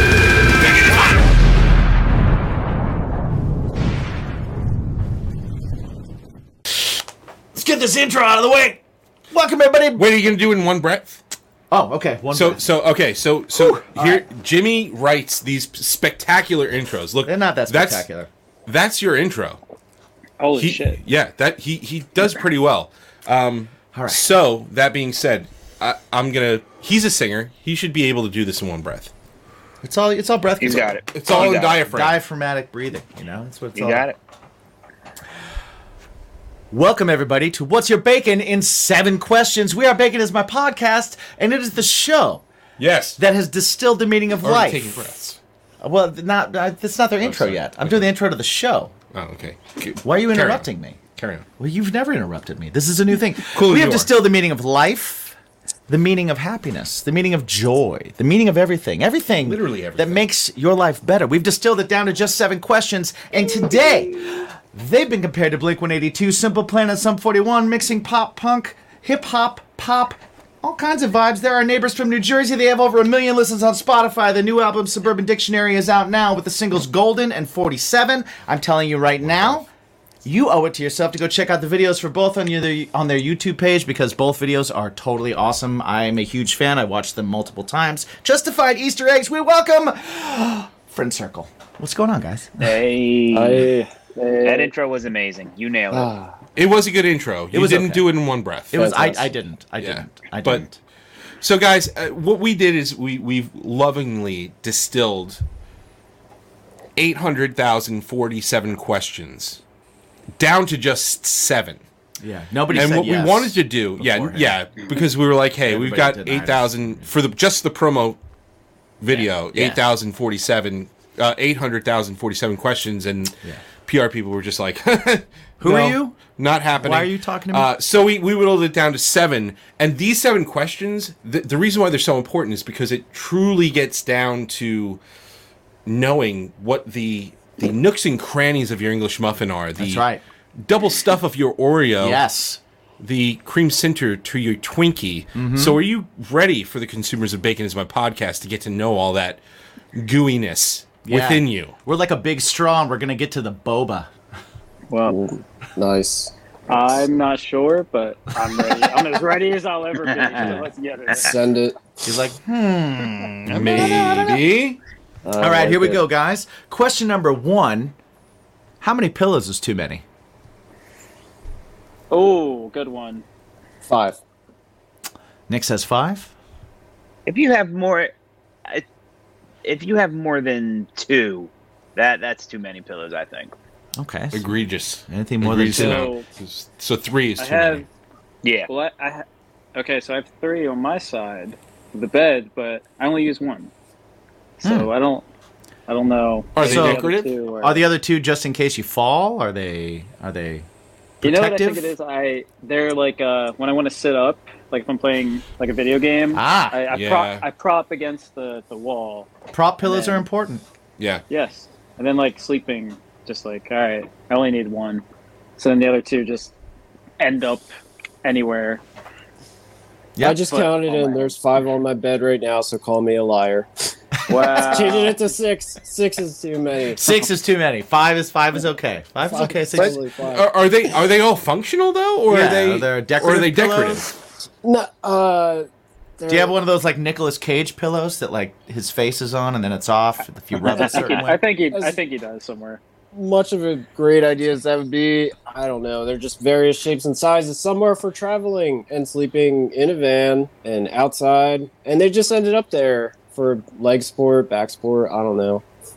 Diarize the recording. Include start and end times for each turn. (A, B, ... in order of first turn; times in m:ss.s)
0:07.5-0:10.0 A
0:10.0-0:11.2 B
0:11.7-0:12.6 A
0:12.3-0:18.0 B
0:13.5-0:14.2 A
0:17.2-0:18.3 A
0:18.7-0:19.6 B
0:20.4-0:21.0 C
0:20.6-0:29.1 B
0:23.9-0:24.3 A
0:29.8-0:34.0 A
0:30.6-0:31.8 D
0:31.1-0:32.2 B
0:33.8-0:34.2 D
0:36.7-0:42.4 A
0:42.8-0:43.2 B
0:43.2-0:44.9 A
0:44.4-0:45.4 B
0:45.8-0:48.9 A
0:47.2-0:48.0 B
0:49.1-0:51.4 B
0:50.0-0:51.0 A
0:51.6-0:55.4 A
0:53.5-0:54.1 B
0:55.9-1:19.7 A
0:59.4-1:00.3 B
1:20.2-1:32.8 A
1:32.6-1:33.7 D
1:33.3-1:34.6 E
1:34.4-1:36.1 D
1:35.9-1:36.3 E
1:36.6-1:38.7 B
1:37.5-1:38.1 A
1:38.7-1:40.8 A
1:38.7-1:39.3 E
1:39.8-1:40.6 B
1:41.4-1:45.4 B
1:47.0-1:49.6 B
1:50.4-1:51.8 B
1:52.2-1:54.6 A
1:52.7-1:58.2 B
1:55.7-1:57.1 A
1:59.0-2:15.0 B
1:59.5-1:59.8 A
2:05.6-2:06.2 A
2:06.7-2:07.7 A
2:15.8-2:20.1 B
2:19.8-2:20.2 A
2:20.6-2:22.2 B
2:22.0-2:22.6 A
2:23.0-2:29.4 B
2:25.3-2:25.8 A
2:29.9-2:31.7 B
2:31.0-2:34.1 A
2:34.9-2:35.2 C
2:35.1-2:37.0 E
2:36.7-2:41.4 C
2:40.1-2:40.6 D
2:41.1-2:42.1 E
2:42.0-2:44.4 A
2:43.5-2:44.8 B
2:45.2-2:46.0 E
2:45.4-2:47.9 A
2:48.8-2:50.0 A
2:52.1-2:53.2 C
2:53.8-2:54.2 E
2:55.5-2:56.3 A
2:57.2-2:58.1 D
2:59.6-3:03.5 D
3:04.0-3:04.5 A
3:04.3-3:07.8 B
3:05.1-3:06.0 A
3:05.7-3:06.2 C
3:07.4-3:07.9 C
3:08.4-3:08.7 D
3:08.6-3:13.7 C
3:14.6-3:15.2 C
3:14.6-3:14.9 A
3:15.9-3:17.8 C
3:16.6-3:17.3 B
3:16.6-3:17.0 A
3:17.6-3:20.6 A
3:21.2-3:21.9 A
3:21.2-3:29.3 C
3:26.3-3:26.8 A
3:26.9-3:27.4 B
3:29.5-3:30.6 A
3:29.8-3:30.2 C
3:31.0-3:31.2 B
3:31.3-3:35.0 C
3:35.6-3:36.5 C
3:37.2-3:37.7 C
3:38.2-3:38.8 C
3:40.2-3:40.4 A
3:40.2-3:43.9 E
3:40.5-3:41.3 C
3:44.3-3:45.2 C
3:44.3-3:44.8 A
3:44.7-3:47.0 E
3:46.9-3:50.0 A
3:49.2-3:50.5 E
3:49.8-3:54.1 B
3:52.3-3:54.1 A
3:54.6-3:55.7 E
3:56.2-3:56.5 E
3:56.3-4:01.3 A
4:00.6-4:01.3 D
4:00.7-4:02.8 C
4:01.7-4:02.0 E
4:03.1-4:15.6 E